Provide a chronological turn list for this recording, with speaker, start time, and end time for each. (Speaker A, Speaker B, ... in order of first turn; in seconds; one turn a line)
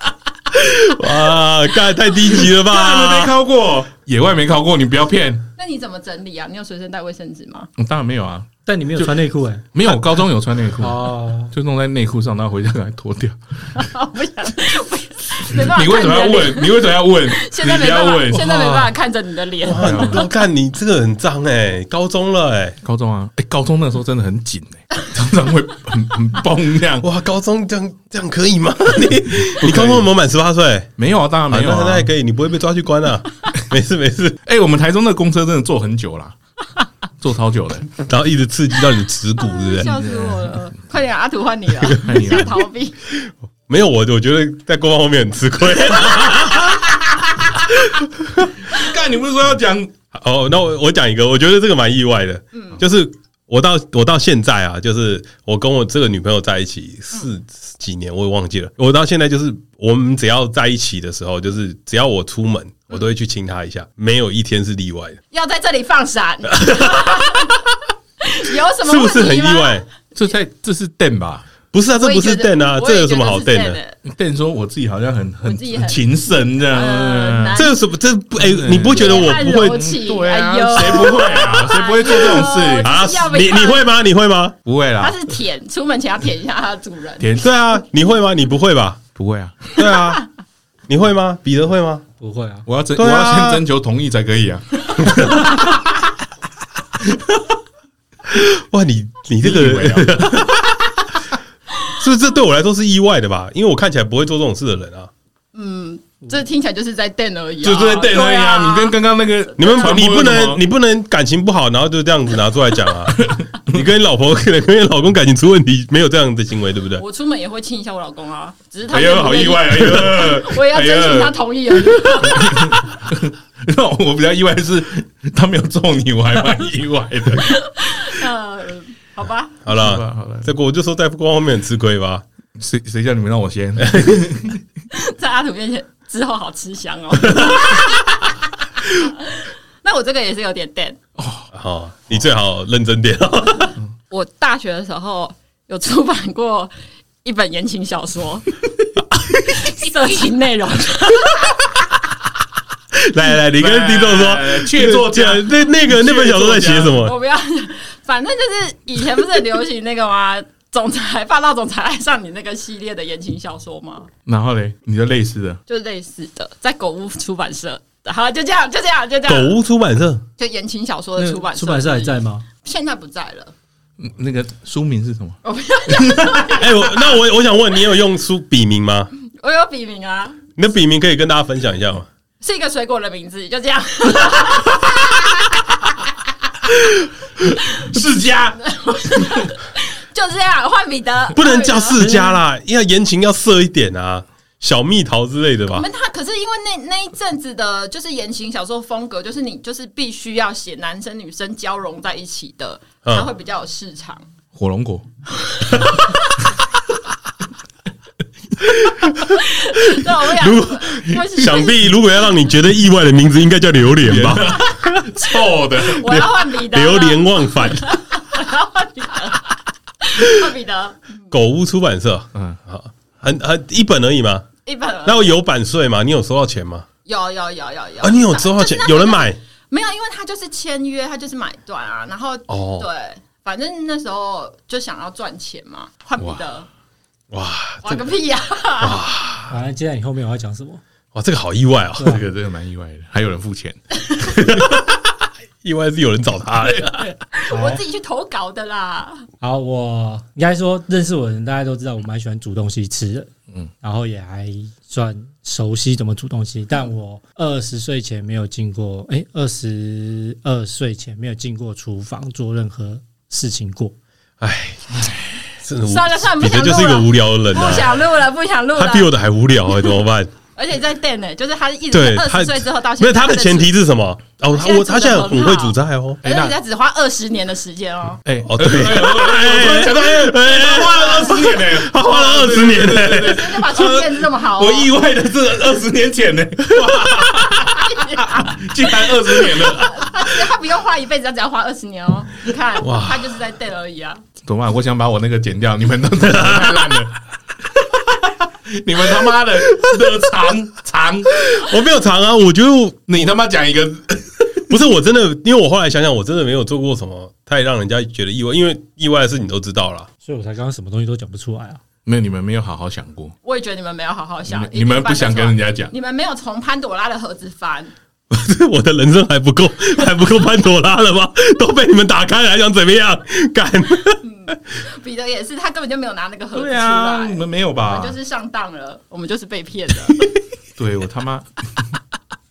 Speaker A: 0.5-3.4
Speaker B: 2.4-5.5
Speaker C: 5.6-7.7
Speaker B: 7.8-9.1
Speaker D: 8.7-9.6
Speaker B: 9.7-13.9
Speaker D: 10.8-11.5
Speaker C: 13.7-20.4
Speaker B: 15.5-18.9
Speaker A: 19.6-22.8
Speaker B: 19.7-20.2
Speaker B: 22.8-27.1
Speaker A: 27.0-30.9
Speaker B: 29.5-30.1
Speaker B: 31.0-32.1
Speaker A: 31.5-34.4
Speaker B: 34.5-36.3
Speaker B: 37.2-37.9
Speaker A: 37.9-39.9
Speaker C: 39.4-43.0
Speaker B: 39.8-40.7
Speaker A: 41.8-42.2
Speaker B: 42.0-42.6
Speaker A: 43.7-48.5
Speaker B: 48.7-49.9
Speaker A: 50.1-65.2
Speaker C: 52.5-52.8
Speaker C: 65.3-67.5
Speaker A: 66.6-67.4
Speaker C: 68.2-69.8
Speaker A: 68.8-69.8
Speaker B: 70.1-71.5
Speaker A: 71.7-73.8
Speaker C: 72.0-74.0
Speaker B: 74.0-77.6
Speaker C: 75.4-76.0
Speaker C: 76.7-77.8
Speaker A: 77.5-80.0
Speaker B: 78.4-83.0
Speaker C: 78.9-83.9
Speaker A: 82.8-84.5
Speaker B: 84.6-85.2
Speaker C: 85.0-87.3
Speaker B: 87.2-87.5
Speaker A: 87.4-89.0
Speaker B: 89.1-89.6
Speaker A: 89.7-90.2
Speaker A: 90.9-92.0
Speaker D: 92.2-92.7
Speaker B: 92.7-95.5
Speaker A: 93.0-93.6
Speaker A: 95.0-95.6
Speaker A: 98.3-100.7
Speaker B: 99.4-100.5
Speaker A: 101.9-105.1
Speaker C: 105.5-109.0
Speaker B: 107.6-110.6
Speaker C: 109.5-110.0
Speaker A: 109.6-117.0
Speaker B: 113.1-113.8
Speaker C: 117.0-122.9
Speaker B: 118.9-127.6
Speaker C: 127.4-129.6
Speaker A: 129.6-132.2
Speaker B: 129.7-130.5
Speaker B: 132.6-134.6
Speaker A: 133.8-134.2
Speaker C: 134.9-138.3
Speaker C: 138.9-141.0
Speaker B: 141.2-141.5
Speaker A: 141.5-143.7
Speaker C: 144.1-148.6
Speaker C: 149.5-151.6
Speaker A: 152.9-157.1
Speaker B: 153.5-157.0
Speaker C: 157.0-164.1
Speaker B: 164.2-165.6
Speaker C: 165.7-169.6
Speaker A: 169.3-170.2
Speaker C: 170.4-173.5
Speaker D: 171.2-172.4
Speaker B: 174.0-176.4
Speaker C: 175.4-177.2
Speaker A: 176.5-179.1
Speaker C: 179.2-180.4
Speaker A: 180.6-182.1
Speaker C: 182.4-185.6
Speaker B: 187.4-188.6
Speaker C: 187.6-192.2
Speaker A: 191.3-195.8
Speaker C: 195.7-204.3
Speaker A: 203.0-203.3
Speaker B: 204.5-205.1
Speaker C: 205.4-206.4
Speaker A: 208.8-209.1
Speaker C: 209.2-211.9
Speaker A: 210.0-215.1
Speaker B: 214.0-216.1
Speaker C: 215.8-221.1
Speaker A: 216.0-218.0
Speaker A: 221.3-224.5
Speaker C: 224.6-225.4
Speaker A: 225.0-226.9
Speaker C: 227.1-236.7
Speaker A: 228.0-229.4
Speaker A: 232.5-232.9
Speaker A: 237.3-238.1
Speaker C: 237.8-239.0
Speaker A: 238.8-239.5
Speaker D: 239.5-240.8
Speaker A: 241.1-242.2
Speaker D: 241.9-242.2
Speaker B: 242.0-243.8
Speaker A: 244.2-245.0
Speaker A: 245.6-247.1
Speaker C: 247.2-249.2
Speaker D: 247.5-247.8
Speaker D: 249.4-253.3
Speaker D: 253.8-263.9
Speaker A: 264.4-267.9
Speaker C: 265.9-269.1
Speaker A: 268.8-270.3
Speaker C: 270.6-273.7
Speaker A: 271.9-276.2
Speaker C: 274.5-278.2
Speaker B: 276.2-276.5
Speaker B: 278.2-290.2
Speaker A: 278.4-283.8
Speaker C: 280.8-281.4
Speaker C: 283.1-284.9
Speaker A: 286.7-287.5
Speaker C: 287.7-288.7
Speaker C: 289.2-294.2
Speaker A: 292.8-293.3
Speaker B: 294.4-297.2
Speaker A: 296.3-296.8
Speaker B: 298.1-301.4
Speaker A: 299.6-300.1
Speaker A: 301.5-303.3
Speaker B: 303.1-304.6
Speaker A: 304.7-310.1
Speaker D: 310.2-311.8
Speaker B: 312.0-313.3
Speaker C: 313.4-317.9
Speaker B: 314.5-315.9
Speaker A: 318.3-324.2
Speaker C: 324.2-330.3
Speaker B: 326.5-328.2
Speaker B: 330.8-331.8